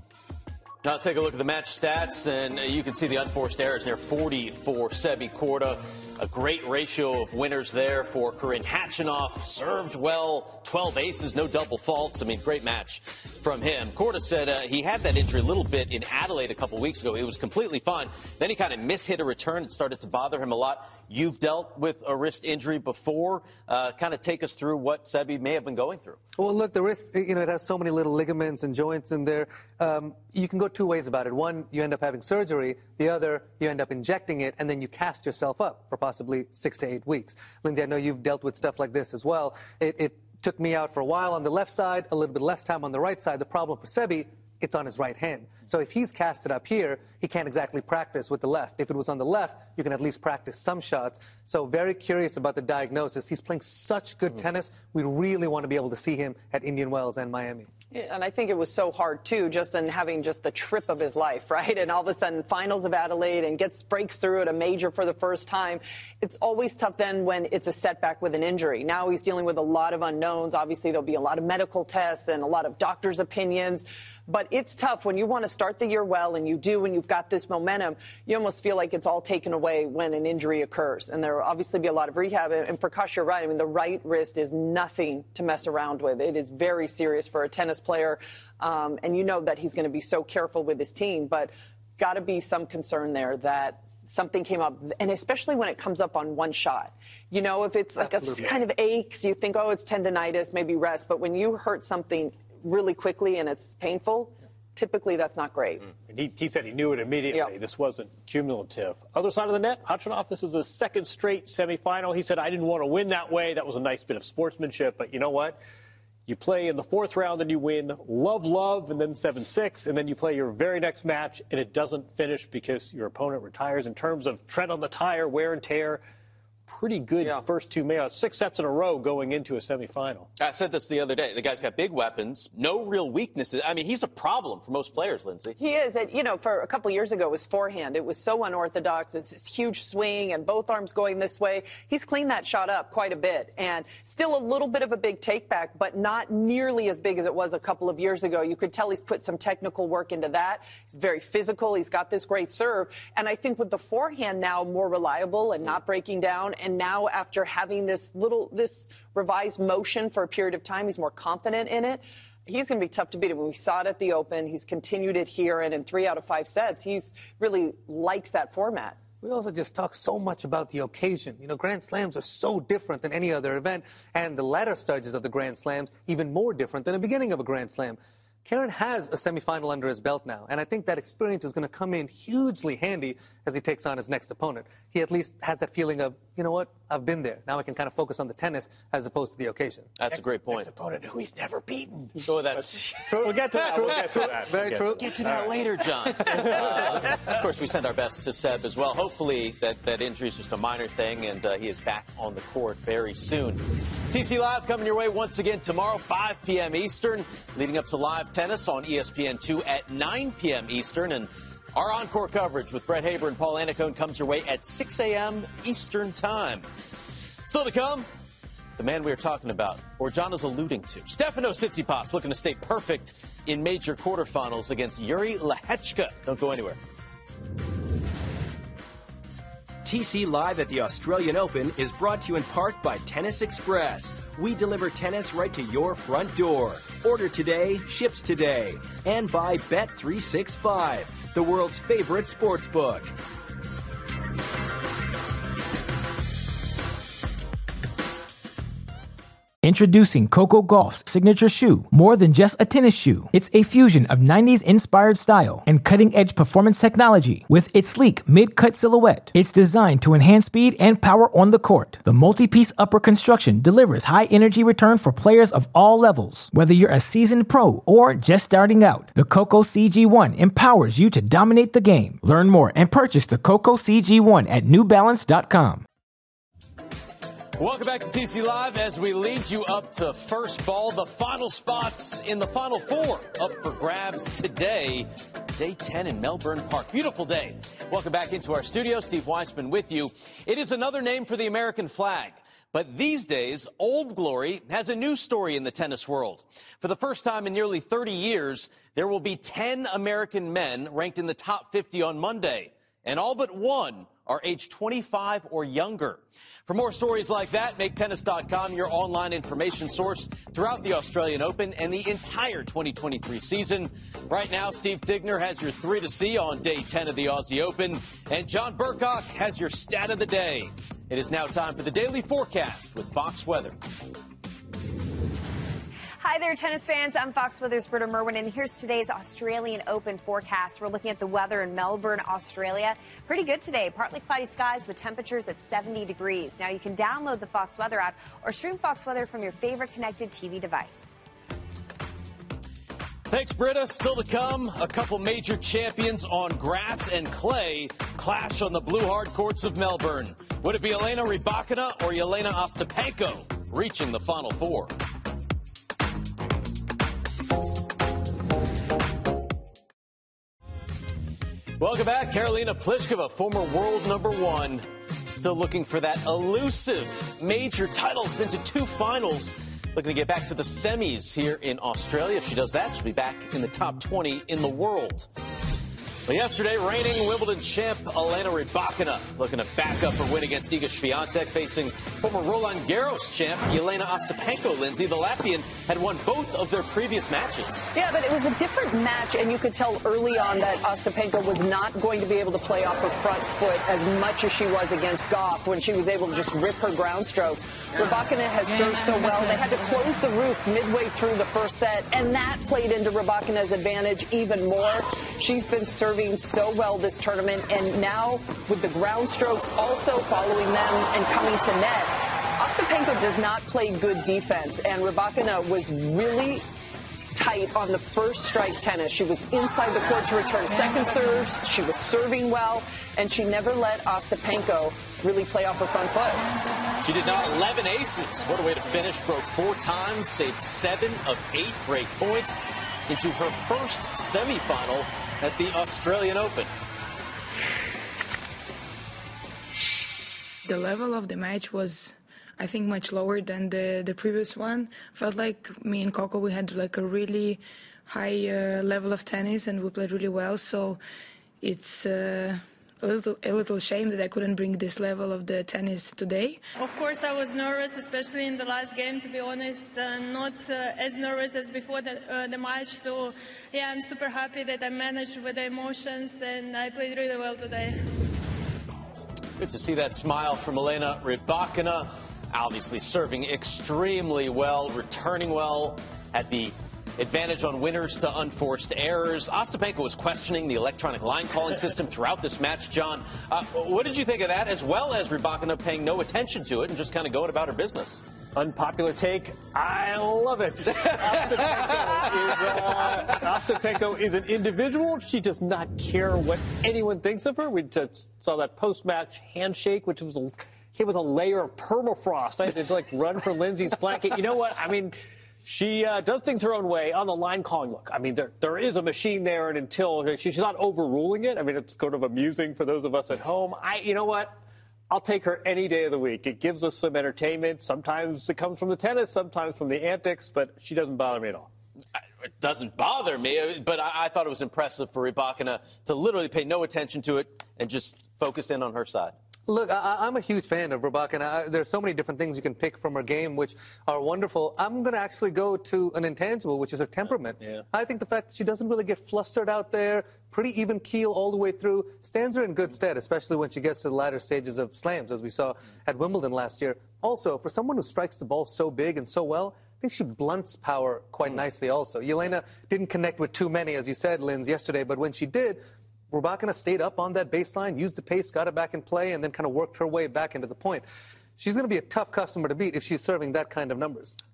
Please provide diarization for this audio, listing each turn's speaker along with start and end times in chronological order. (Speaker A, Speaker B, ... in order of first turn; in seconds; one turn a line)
Speaker A: 0.8-26.2
Speaker B: 26.4-57.7
Speaker C: 57.9-105.9
Speaker D: 106.1-115.6
Speaker D: 116.3-126.0
Speaker D: 126.7-130.3
Speaker A: 130.4-135.6
Speaker C: 135.6-169.0
Speaker B: 169.2-189.9
Speaker A: 190.0-190.7
Speaker D: 190.1-197.2
Speaker A: 192.2-193.2
Speaker B: 193.1-195.2
Speaker A: 193.7-194.2
Speaker A: 195.0-218.1
Speaker A: 218.8-226.8
Speaker E: 229.8-243.1
Speaker F: 249.6-275.8
Speaker A: 277.6-323.8
Speaker G: 326.2-341.2
Speaker A: 343.3-354.9
Speaker A: 361.8-375.3
Speaker A: 376.3-387.9
Speaker C: 387.9-416.7
Speaker C: 417.4-426.5
Speaker A: 427.0-436.7
Speaker H: 440.6-451.0
Speaker H: 451.6-456.6
Speaker I: 456.8-468.0
Speaker A: 469.6-488.2
Speaker D: 488.6-514.6
Speaker A: 491.3-491.6
Speaker D: 515.1-521.7
Speaker A: 522.6-529.4
Speaker B: 529.7-561.0
Speaker B: 561.6-564.4